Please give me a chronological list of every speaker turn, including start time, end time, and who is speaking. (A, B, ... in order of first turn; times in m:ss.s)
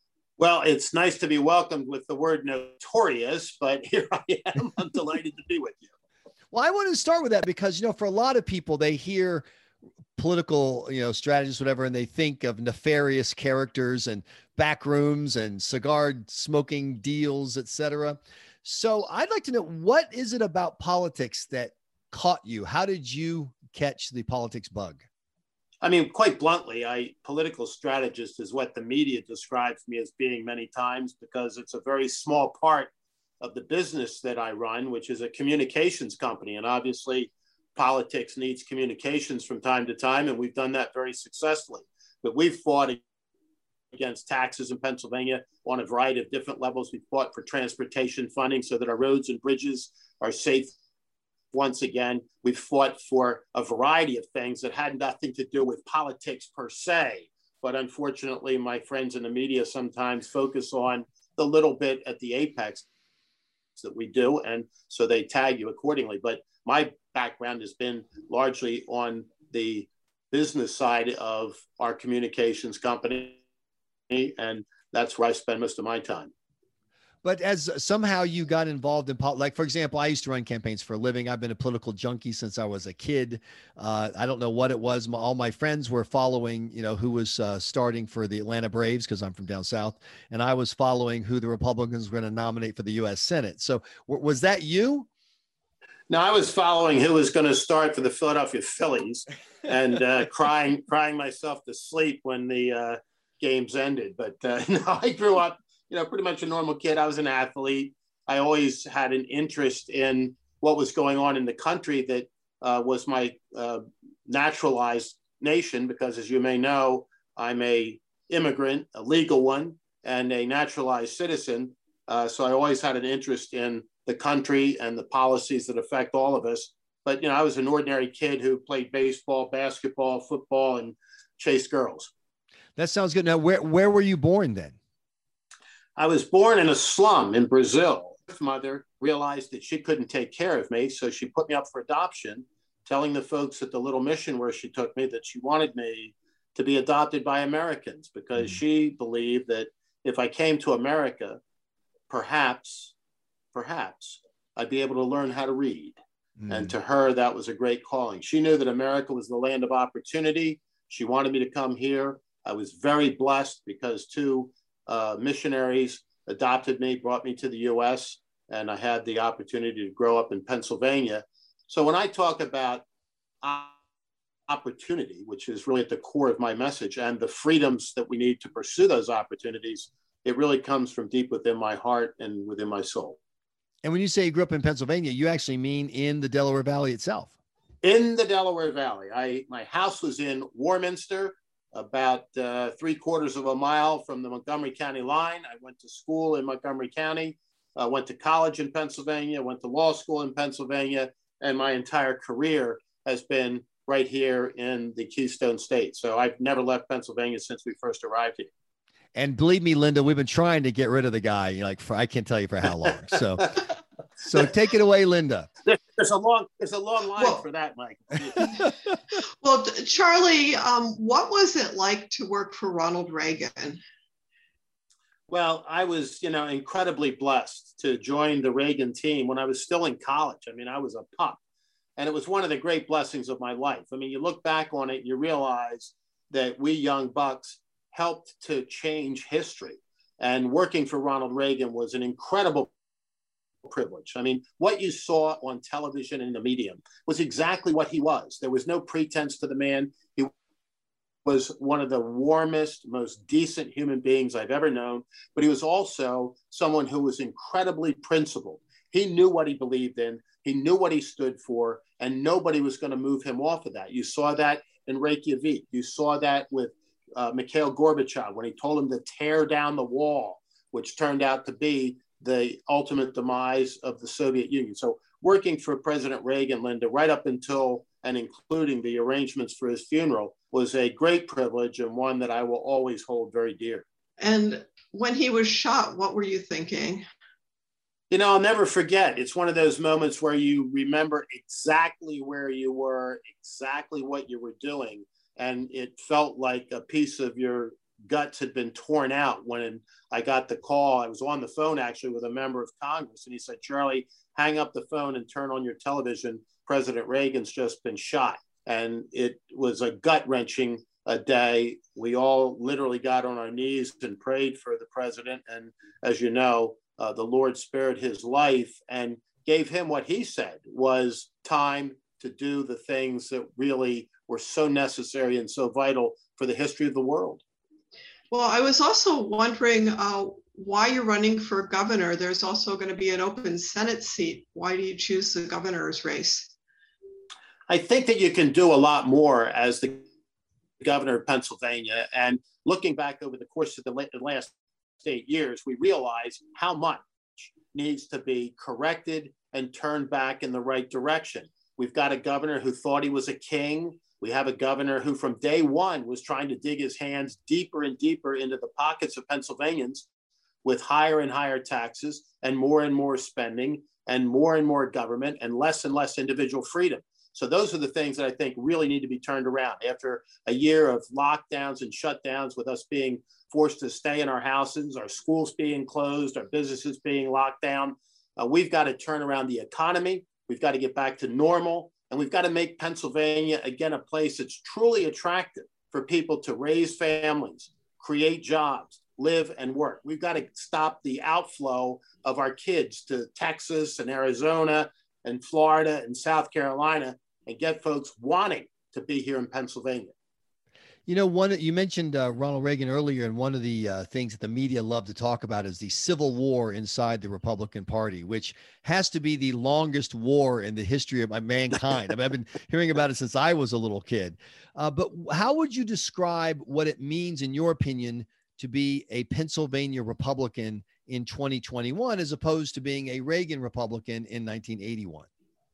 0:00.4-0:05.9 A
0:06.5-0:09.4 B
0:10.2-0:25.0 B
0:25.8-0:43.0 A
0:43.9-0:50.7 A
0:51.5-1:02.9 A
1:03.8-1:13.4 A
1:14.1-1:16.3 A
1:17.2-1:35.1 B
1:36.1-2:12.1 A
2:12.8-2:14.7 B
2:16.0-2:31.4 A
2:32.1-2:32.9 A
2:33.5-2:52.8 A
2:36.4-2:36.7 B
2:53.4-2:53.7 A
2:54.5-3:03.2 A
3:03.8-3:07.3 B
3:07.8-3:28.5 A
3:29.1-3:33.6 B
3:34.2-3:35.5 B
3:35.6-3:38.5 A
3:39.4-3:43.8 C
3:45.3-3:51.4 A
3:52.0-4:02.7 A
4:03.6-4:10.3 A
4:11.2-4:43.8 A
4:44.2-4:47.0 C
4:48.1-5:27.4 A
5:28.3-5:36.5 C
5:37.7-5:40.0 A
5:40.8-6:00.1 A
6:00.6-6:40.1 A
6:41.1-7:05.3 B